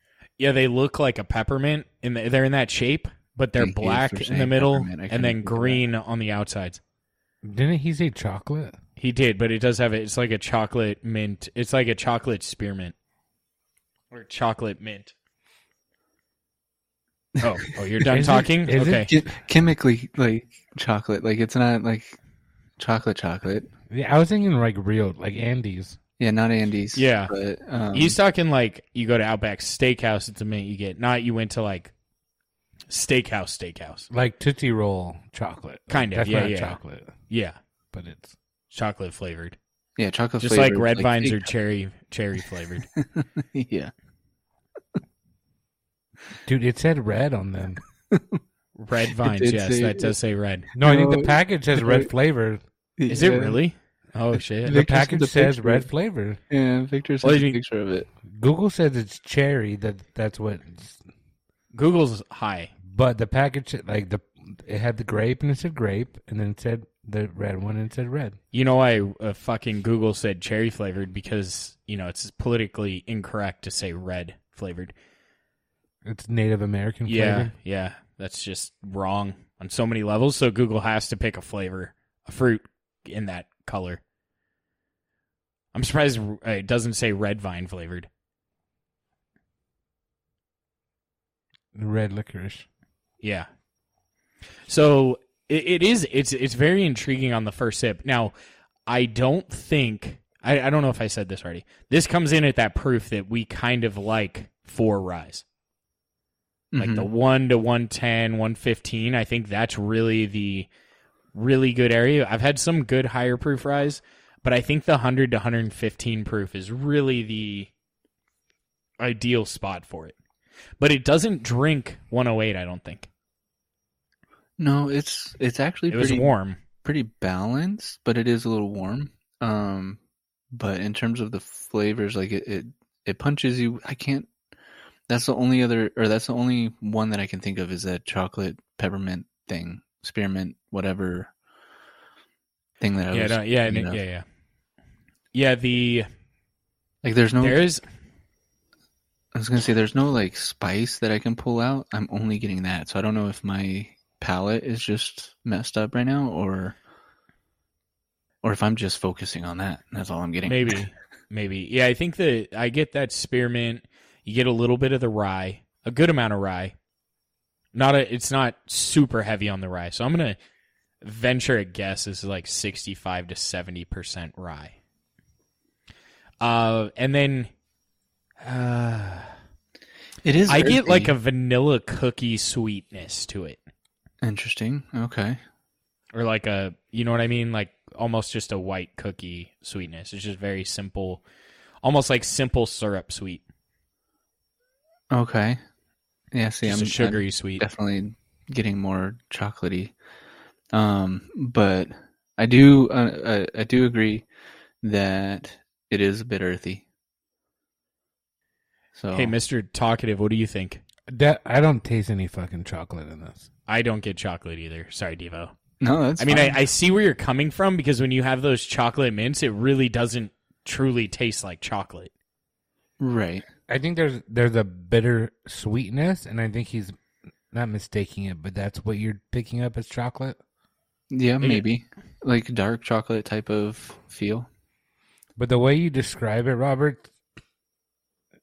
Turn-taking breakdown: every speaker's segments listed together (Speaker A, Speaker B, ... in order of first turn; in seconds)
Speaker A: 0.4-6.8, 9.0-12.9, 14.1-15.1, 17.4-19.1, 26.9-27.3, 27.9-31.9, 32.9-34.1, 35.9-37.6, 38.7-39.6, 40.4-42.9, 48.8-50.7, 53.1-54.7, 57.2-57.6, 61.7-62.7, 68.5-74.9, 77.1-84.0, 85.7-88.1, 93.2-93.5, 94.7-98.3, 98.9-105.5, 106.8-110.7, 111.3-117.7, 119.0-120.2, 120.8-123.1, 125.9-126.6, 143.1-144.2, 145.3-146.1, 147.4-147.8, 160.5-166.7, 167.7-170.4, 171.0-174.8, 176.4-177.5, 178.4-179.3, 180.5-183.6, 186.1-191.2, 191.8-193.4, 196.6-197.6, 209.1-210.8, 213.7-215.5, 216.2-222.1
Speaker B: 3.6-5.8, 18.8-22.2, 22.8-23.7, 26.2-28.2, 40.0-41.5, 43.0-43.9, 48.1-48.4, 49.1-50.2, 50.7-52.1, 53.0-53.6, 54.6-55.9, 56.5-58.1, 106.7-107.1, 124.6-130.0, 130.5-134.3, 135.1-141.3, 142.8-144.0, 147.0-147.6, 149.3-156.8, 158.4-160.8, 180.2-181.2, 184.2-185.4, 195.1-195.6, 196.3-199.9, 200.7-204.3, 204.8-206.8, 208.9-209.3, 215.8-216.6, 223.0-223.4, 231.1-234.5
Speaker C: 7.4-8.8, 18.1-19.3, 23.9-26.0, 34.1-37.1, 37.9-38.4, 46.5-47.8, 50.8-52.6, 54.7-56.4, 58.3-61.0, 62.9-68.4, 76.0-77.5, 91.7-92.7, 211.1-213.5, 223.7-227.0, 227.5-230.4, 235.4-237.1